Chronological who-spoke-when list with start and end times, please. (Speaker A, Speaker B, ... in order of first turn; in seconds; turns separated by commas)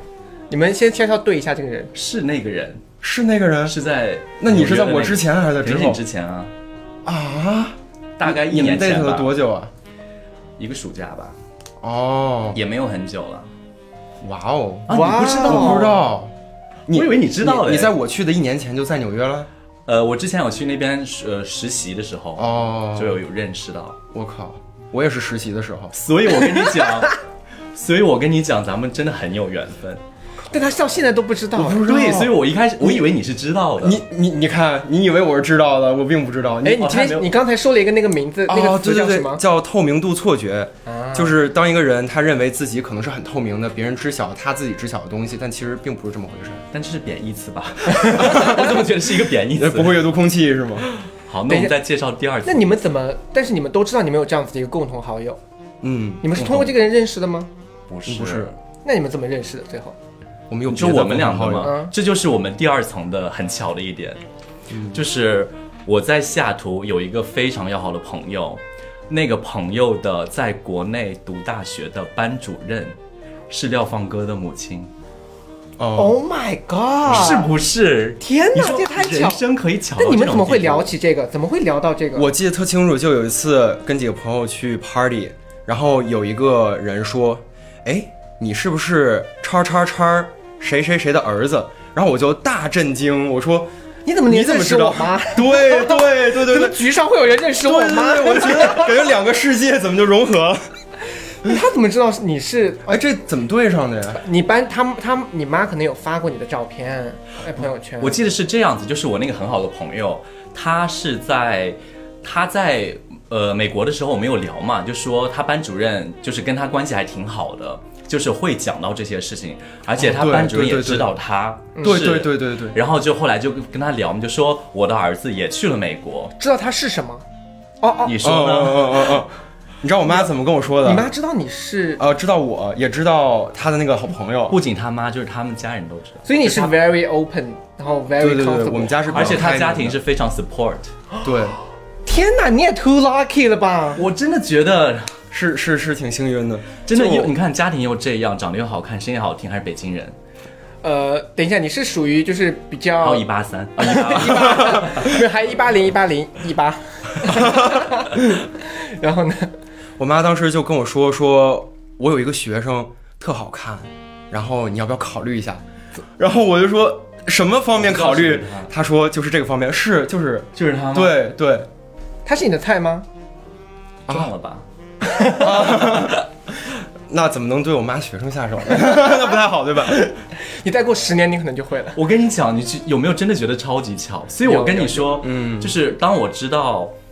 Speaker A: 0.5-1.9, Speaker B: 1.9-2.8, Speaker C: 3.0-3.7, Speaker B: 3.6-6.5, Speaker C: 4.4-6.0, Speaker C: 7.0-9.7, Speaker B: 8.2-9.3, Speaker B: 10.6-11.4, Speaker C: 11.8-12.6, Speaker B: 12.5-13.5, Speaker C: 14.2-16.3, Speaker B: 14.9-16.0, Speaker A: 14.9-16.0, Speaker C: 16.9-19.5, Speaker B: 16.9-17.9, Speaker B: 19.9-24.0, Speaker C: 22.4-23.2, Speaker C: 24.1-25.9, Speaker B: 25.9-27.2, Speaker B: 27.7-30.0, Speaker A: 30.5-31.8, Speaker C: 31.5-33.1, Speaker B: 31.8-34.0, Speaker C: 33.8-36.9, Speaker A: 36.6-39.4, Speaker B: 36.8-37.3, Speaker C: 38.5-46.6, Speaker A: 40.9-41.4, Speaker B: 46.7-50.1, Speaker A: 48.0-48.6, Speaker C: 48.1-48.7, Speaker C: 49.5-50.9, Speaker B: 50.9-52.8, Speaker A: 52.4-55.4, Speaker C: 55.8-56.7, Speaker A: 56.2-57.5, Speaker B: 56.4-56.7, Speaker B: 57.9-58.6, Speaker C: 58.1-58.5, Speaker A: 58.8-60.0, Speaker C: 60.5-61.7, Speaker B: 60.7-64.2, Speaker A: 61.6-61.9, Speaker C: 64.7-65.0, Speaker B: 64.9-73.0, Speaker B: 73.5-74.9, Speaker C: 75.8-76.2, Speaker A: 75.9-77.5, Speaker B: 77.0-80.9, Speaker A: 78.2-79.4, Speaker A: 80.0-82.3, Speaker C: 82.1-93.7, Speaker A: 94.0-99.2, Speaker C: 94.3-96.8, Speaker C: 97.6-100.6, Speaker A: 101.4-103.0, Speaker C: 102.9-104.2, Speaker A: 104.2-108.2, Speaker B: 108.0-126.3, Speaker C: 120.0-121.1, Speaker A: 121.8-122.2, Speaker C: 121.8-122.8, Speaker A: 126.4-127.2, Speaker A: 127.8-128.2, Speaker B: 128.0-129.2, Speaker C: 128.2-129.3, Speaker C: 129.8-131.1, Speaker A: 130.8-132.0, Speaker C: 132.0-134.6, Speaker B: 134.5-136.3, Speaker A: 136.2-139.5, Speaker C: 138.2-140.0, Speaker B: 139.1-140.9, Speaker C: 141.2-141.6, Speaker A: 142.0-144.0, Speaker B: 143.9-145.2, Speaker C: 145.3-147.3, Speaker B: 146.9-150.2, Speaker A: 150.8-159.5, Speaker B: 153.0-155.1, Speaker C: 154.6-155.2, Speaker C: 157.3-157.8, Speaker C: 160.0-165.6, Speaker C: 166.2-171.7, Speaker B: 167.7-168.7, Speaker B: 170.5-171.2, Speaker A: 172.2-173.1, Speaker B: 174.1-174.7, Speaker A: 175.0-175.9, Speaker C: 175.3-176.2, Speaker B: 175.6-176.2, Speaker C: 177.1-180.2, Speaker A: 178.7-179.2, Speaker A: 180.4-182.0, Speaker B: 181.9-186.9, Speaker A: 184.4-185.1, Speaker C: 185.2-185.7